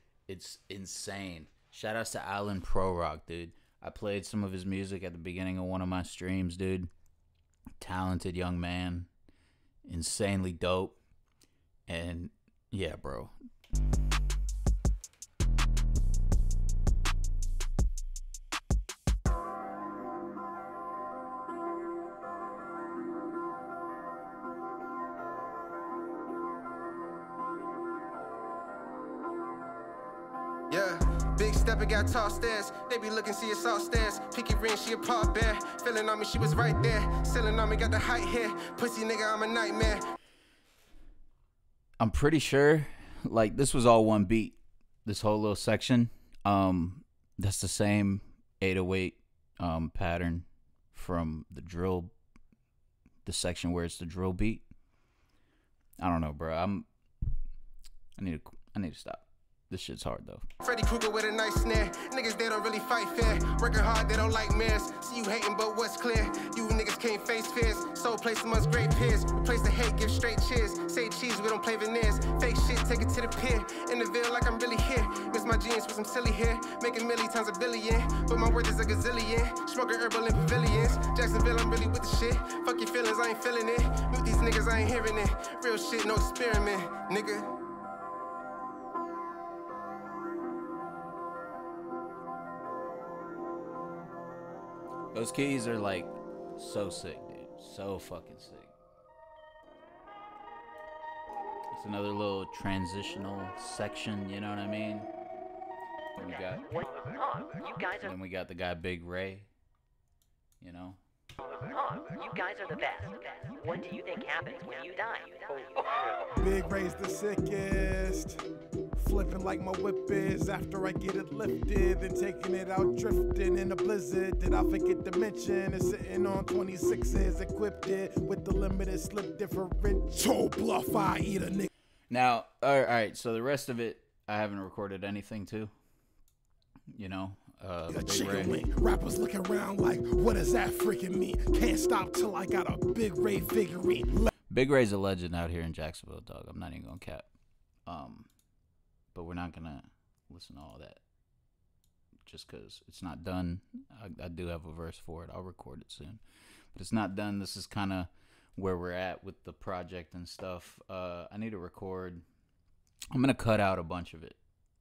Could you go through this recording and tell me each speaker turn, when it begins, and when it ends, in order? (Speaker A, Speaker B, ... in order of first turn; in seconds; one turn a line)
Speaker A: 0.3-6.9
Speaker A: 7.8-9.1
Speaker A: 9.8-11.0
Speaker A: 11.9-13.3
Speaker B: 30.7-40.0
Speaker A: 42.0-52.1
Speaker A: 53.2-54.6
Speaker A: 56.0-56.9
Speaker A: 58.2-60.4
Speaker B: 60.6-87.5
Speaker A: 95.1-98.7
Speaker A: 101.7-105.1
Speaker A: 106.2-106.7
Speaker C: 107.3-108.0
Speaker A: 107.9-109.5
Speaker A: 110.6-111.0
Speaker C: 111.9-115.7
Speaker D: 116.4-118.4
Speaker D: 118.9-131.7
Speaker A: 132.1-135.7
Speaker A: 136.9-138.6
Speaker D: 137.9-144.3
Speaker A: 144.5-147.2
Speaker A: 147.9-148.3
Speaker A: 149.1-151.0
Speaker A: 152.2-156.2
Speaker A: 156.7-162.2
Speaker A: 163.1-164.4